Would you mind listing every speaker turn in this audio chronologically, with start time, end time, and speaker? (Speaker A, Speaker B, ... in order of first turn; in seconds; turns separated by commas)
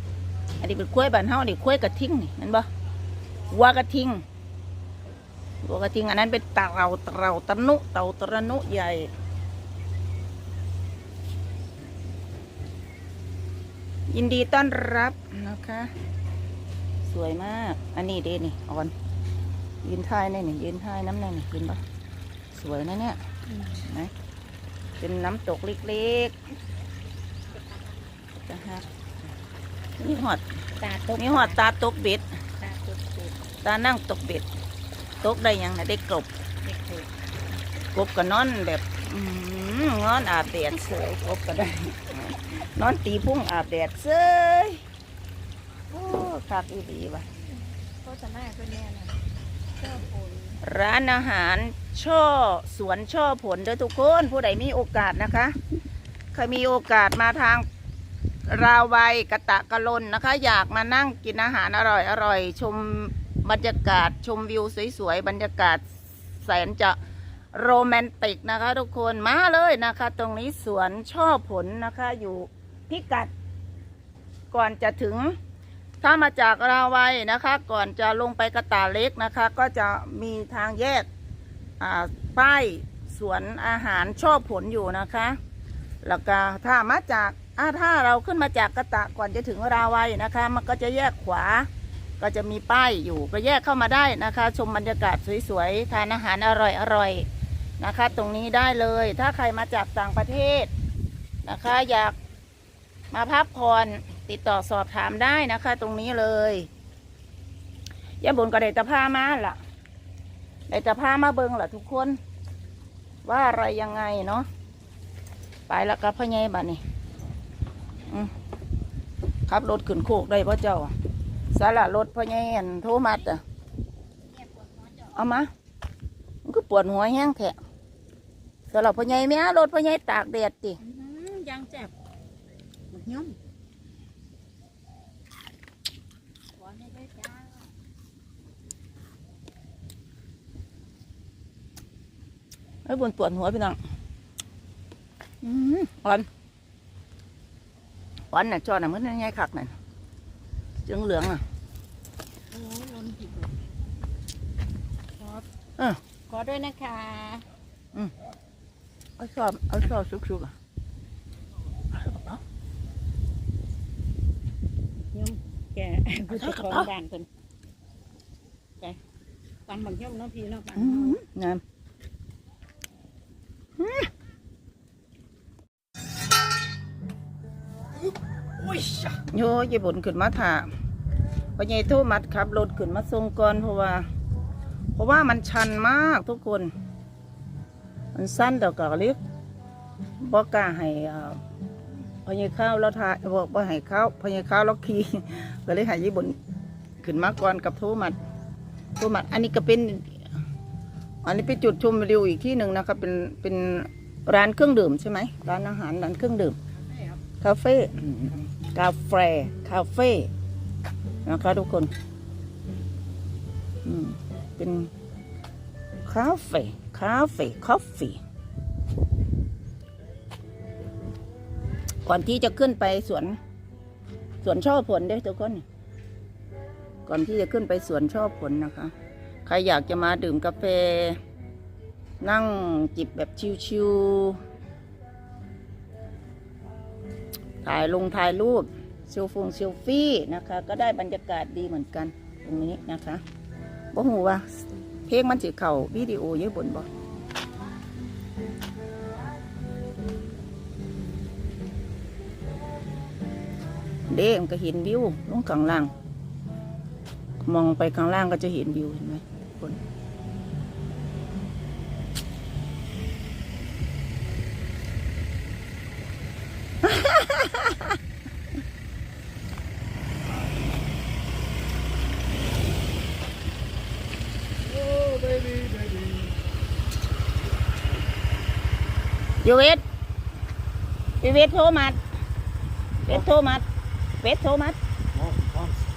Speaker A: 0.6-2.7, Speaker A: 3.5-4.2, Speaker A: 5.6-9.1, Speaker A: 14.1-15.9, Speaker A: 17.0-18.9, Speaker A: 19.8-21.8, Speaker A: 22.5-23.2, Speaker A: 23.7-24.1, Speaker A: 25.0-26.3, Speaker A: 28.4-28.8, Speaker A: 30.0-30.4, Speaker B: 30.8-31.6, Speaker A: 31.2-32.3, Speaker B: 32.6-33.4, Speaker A: 33.6-34.5, Speaker A: 35.2-36.3, Speaker B: 36.6-37.1, Speaker A: 37.9-44.8, Speaker A: 45.9-47.2, Speaker B: 48.0-49.1, Speaker B: 49.8-50.6, Speaker A: 50.6-55.5, Speaker A: 56.3-57.6, Speaker A: 58.5-65.8, Speaker A: 66.4-67.0, Speaker A: 67.5-73.3, Speaker A: 74.5-75.3, Speaker A: 76.0-81.1, Speaker A: 81.8-85.4, Speaker A: 86.0-91.7, Speaker A: 92.2-97.3, Speaker A: 97.8-100.7, Speaker A: 101.4-102.1, Speaker A: 103.1-106.7, Speaker A: 108.2-109.6, Speaker A: 110.7-112.2, Speaker A: 113.2-114.5, Speaker A: 115.7-116.8, Speaker A: 119.5-120.9, Speaker A: 121.5-123.4, Speaker A: 125.0-125.5, Speaker A: 126.4-127.5, Speaker A: 128.7-130.8, Speaker B: 130.8-131.9, Speaker B: 132.9-133.4, Speaker B: 136.6-137.6, Speaker A: 142.8-143.8, Speaker A: 145.4-146.3, Speaker A: 148.3-149.7, Speaker A: 150.8-151.4, Speaker B: 152.5-153.5, Speaker B: 155.2-155.4, Speaker B: 156.3-157.4, Speaker A: 159.2-160.5, Speaker A: 161.9-162.4, Speaker B: 165.1-167.3, Speaker A: 166.3-166.9, Speaker B: 169.7-171.2, Speaker A: 170.8-171.6, Speaker A: 173.8-174.1, Speaker A: 179.2-180.7, Speaker A: 181.6-184.1, Speaker A: 184.9-186.7, Speaker A: 188.1-189.2, Speaker A: 190.2-191.4, Speaker A: 192.2-196.4, Speaker A: 197.0-198.2, Speaker A: 199.0-200.1, Speaker A: 201.2-206.5, Speaker A: 207.4-210.3, Speaker A: 211.2-211.9, Speaker A: 213.8-214.9, Speaker A: 216.1-218.2, Speaker A: 222.1-223.4, Speaker A: 224.4-225.6, Speaker A: 227.1-228.9, Speaker A: 229.4-231.2, Speaker A: 232.2-234.4, Speaker A: 237.6-243.2, Speaker A: 243.9-244.4, Speaker A: 245.1-246.9, Speaker A: 254.1-255.9, Speaker A: 257.4-259.8, Speaker A: 266.9-267.5, Speaker A: 279.4-279.8, Speaker A: 281.2-282.0, Speaker A: 283.0-283.6, Speaker A: 284.2-284.8